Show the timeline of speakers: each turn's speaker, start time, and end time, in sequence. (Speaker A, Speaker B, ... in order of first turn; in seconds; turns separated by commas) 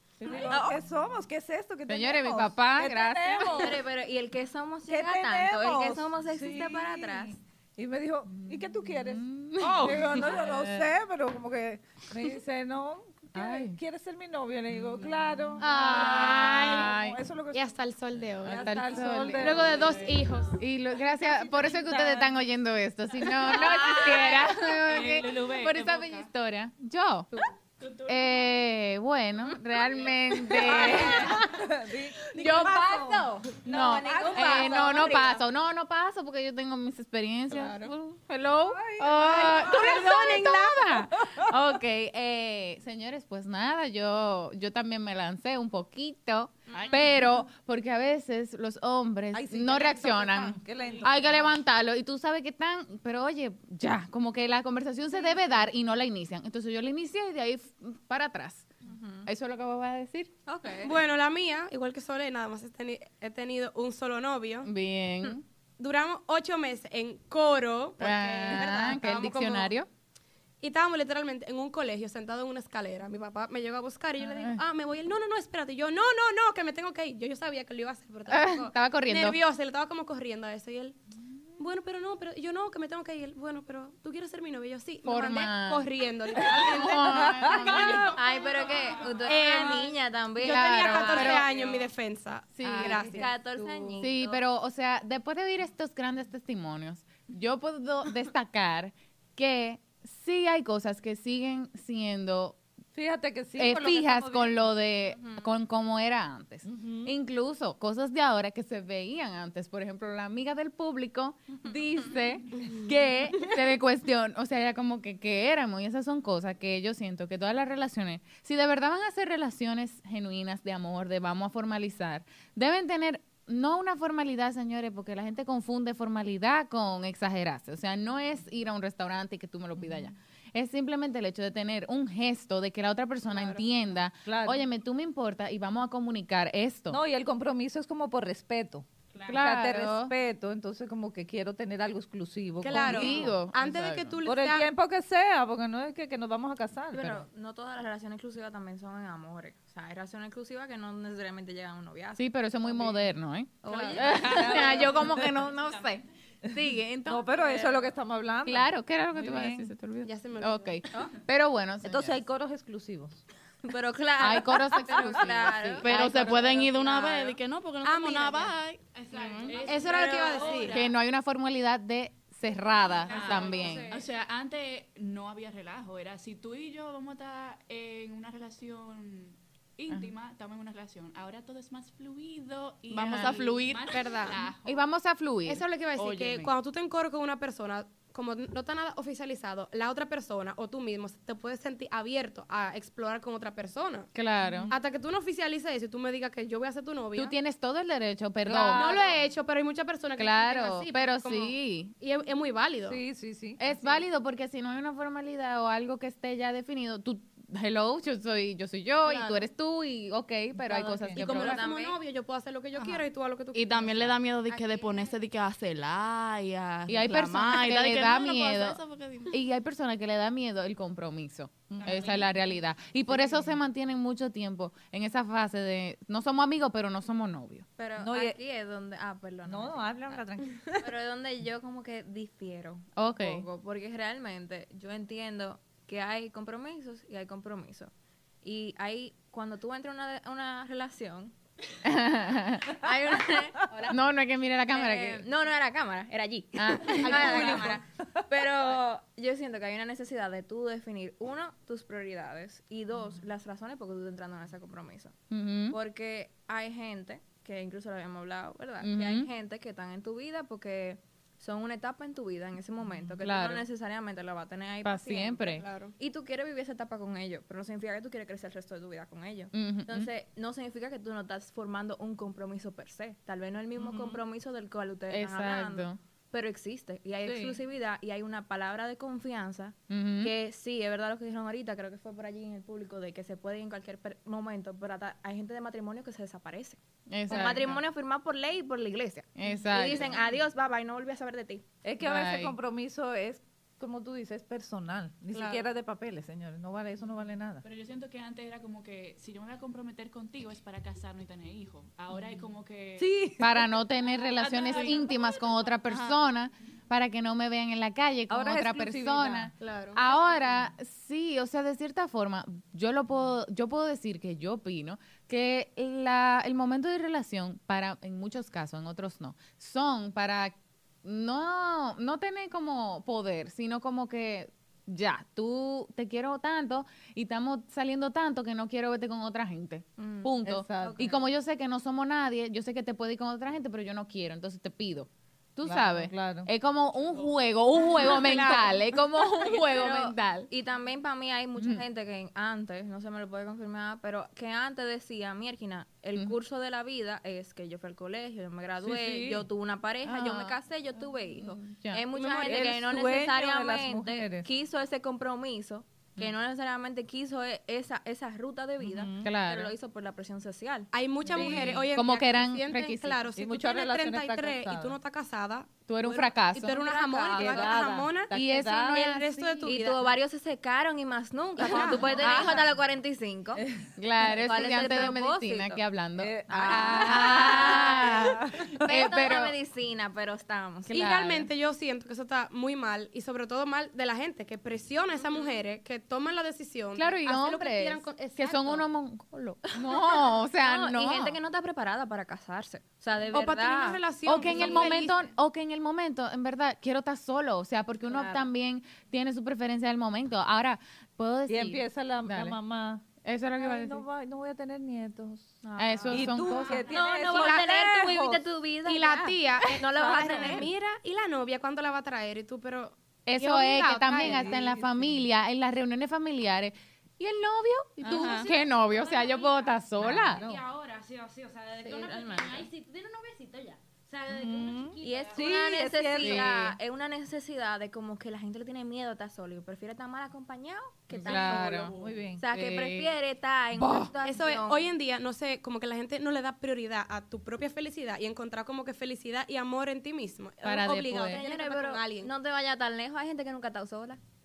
Speaker A: 0.2-3.8, Speaker B: 1.9-3.8, Speaker C: 3.5-7.4, Speaker A: 4.9-17.8, Speaker B: 8.4-10.9, Speaker B: 13.3-13.8, Speaker B: 15.6-17.2, Speaker D: 15.6-16.9, Speaker D: 17.5-20.6, Speaker A: 18.4-20.2, Speaker B: 18.4-19.7, Speaker B: 20.6-27.3, Speaker E: 21.6-22.2, Speaker E: 23.4-26.2, Speaker F: 24.9-25.3, Speaker E: 27.8-28.3, Speaker B: 28.1-31.6, Speaker C: 30.6-31.4, Speaker A: 30.7-34.8, Speaker C: 32.3-35.4, Speaker B: 32.4-32.8, Speaker B: 33.6-58.7, Speaker A: 38.6-41.4, Speaker D: 39.3-40.8, Speaker A: 49.3-51.5, Speaker C: 58.8-59.2, Speaker B: 59.2-60.3, Speaker C: 60.5-60.9, Speaker D: 60.8-64.7, Speaker B: 64.6-65.4, Speaker D: 65.8-69.7, Speaker B: 68.0-69.9, Speaker D: 70.6-81.0, Speaker B: 74.2-74.6, Speaker B: 78.3-79.4, Speaker D: 81.6-88.5, Speaker B: 85.0-88.1, Speaker A: 86.4-88.1, Speaker C: 88.1-90.9, Speaker D: 89.2-93.2, Speaker B: 90.4-91.5, Speaker B: 92.5-93.0, Speaker A: 92.8-94.1, Speaker C: 93.0-94.4, Speaker B: 94.0-102.6, Speaker A: 102.9-104.6, Speaker B: 103.5-137.0, Speaker C: 105.2-105.4, Speaker A: 106.7-107.1, Speaker D: 133.3-133.6, Speaker A: 134.2-134.6, Speaker A: 136.9-143.3, Speaker B: 139.3-140.1, Speaker D: 142.6-144.7, Speaker B: 142.7-144.2, Speaker A: 144.2-147.2, Speaker C: 146.9-153.0, Speaker B: 152.2-157.2, Speaker C: 153.6-154.9, Speaker A: 153.8-155.2, Speaker A: 157.1-159.7, Speaker C: 157.3-157.8, Speaker B: 158.4-162.2, Speaker D: 160.0-160.8, Speaker A: 161.8-163.2, Speaker C: 163.6-167.4, Speaker B: 164.2-166.3, Speaker E: 165.8-170.7, Speaker D: 167.8-168.5, Speaker G: 168.9-170.9, Speaker D: 169.1-170.8, Speaker F: 169.7-170.1, Speaker B: 170.7-173.9, Speaker G: 173.0-173.9, Speaker D: 173.1-173.9, Speaker F: 173.9-184.8, Speaker B: 182.9-183.5, Speaker E: 182.9-184.3, Speaker D: 183.8-184.4, Speaker B: 184.6-185.6, Speaker D: 185.4-194.1, Speaker E: 185.9-186.5, Speaker B: 194.1-194.7, Speaker D: 194.7-197.4, Speaker B: 197.1-199.0, Speaker A: 198.4-199.1, Speaker D: 198.7-203.0, Speaker B: 200.2-201.9, Speaker A: 202.8-203.6, Speaker B: 203.6-211.7, Speaker D: 209.1-209.4, Speaker A: 210.7-211.2, Speaker C: 211.1-212.0, Speaker D: 211.2-214.2, Speaker E: 212.8-213.0, Speaker E: 213.5-219.4, Speaker C: 214.5-215.1, Speaker B: 216.9-227.7, Speaker A: 221.7-222.1, Speaker G: 221.8-222.3, Speaker C: 227.8-230.1, Speaker A: 228.0-228.4, Speaker A: 229.4-230.9, Speaker C: 230.8-237.9, Speaker B: 233.0-233.4, Speaker C: 238.4-241.3, Speaker B: 241.8-245.2, Speaker C: 242.8-243.9, Speaker C: 244.7-255.1, Speaker B: 246.5-247.7, Speaker D: 247.0-247.6, Speaker A: 247.1-247.7, Speaker B: 255.3-255.8, Speaker C: 255.7-291.6, Speaker B: 258.8-259.3, Speaker B: 263.2-263.6, Speaker B: 264.8-265.6, Speaker D: 265.6-265.9, Speaker B: 269.5-270.1, Speaker A: 273.8-274.2, Speaker B: 275.1-276.0, Speaker A: 277.2-277.6, Speaker B: 279.9-280.3, Speaker B: 287.1-287.8, Speaker B: 289.4-290.2, Speaker A: 291.8-297.6, Speaker B: 292.0-292.5, Speaker D: 295.3-295.6, Speaker F: 297.6-303.1, Speaker E: 302.1-302.4, Speaker A: 303.0-303.6, Speaker B: 303.4-340.5, Speaker F: 304.4-305.0, Speaker E: 304.6-305.0, Speaker A: 308.3-309.5, Speaker D: 309.6-310.0, Speaker C: 330.0-331.2, Speaker A: 330.4-331.1, Speaker A: 335.6-336.5, Speaker D: 338.2-338.7, Speaker C: 339.7-361.7, Speaker B: 341.6-341.8, Speaker A: 348.8-349.4, Speaker B: 350.0-350.6, Speaker B: 351.2-352.1, Speaker D: 352.1-352.8, Speaker A: 352.4-354.4, Speaker A: 358.8-359.3, Speaker B: 359.2-359.7, Speaker D: 360.9-368.3, Speaker B: 361.3-363.2, Speaker A: 361.3-361.8, Speaker A: 363.4-364.9, Speaker B: 365.9-366.8, Speaker C: 366.7-367.8, Speaker A: 367.3-369.1, Speaker B: 368.3-369.8, Speaker D: 368.9-370.0, Speaker C: 369.6-373.6, Speaker A: 371.6-372.6, Speaker D: 371.6-372.4, Speaker B: 372.2-372.5, Speaker A: 373.6-373.9, Speaker B: 374.0-379.5, Speaker C: 374.4-375.8, Speaker A: 376.2-378.8, Speaker C: 376.5-378.3, Speaker C: 378.8-380.9, Speaker B: 380.9-381.5, Speaker D: 380.9-388.8, Speaker C: 385.2-385.5, Speaker B: 386.9-391.4, Speaker C: 389.9-395.0, Speaker D: 393.3-395.2, Speaker B: 394.2-402.6, Speaker C: 398.1-398.5, Speaker A: 401.5-403.0, Speaker B: 403.2-404.0, Speaker A: 403.6-405.6, Speaker C: 405.6-410.7, Speaker B: 405.8-406.9, Speaker A: 406.1-408.4, Speaker G: 406.7-407.3, Speaker D: 407.3-407.7, Speaker D: 408.9-414.5, Speaker A: 409.9-410.7, Speaker B: 413.2-420.4, Speaker A: 414.1-415.1, Speaker G: 418.1-425.8, Speaker E: 418.1-418.4, Speaker A: 420.0-420.6, Speaker C: 421.8-422.7, Speaker A: 424.3-426.6, Speaker C: 425.0-434.9, Speaker B: 426.2-426.7, Speaker B: 431.1-431.9, Speaker A: 431.2-432.4, Speaker B: 432.5-433.1, Speaker B: 433.8-434.1, Speaker D: 434.2-442.3, Speaker B: 440.6-441.4, Speaker C: 441.3-444.2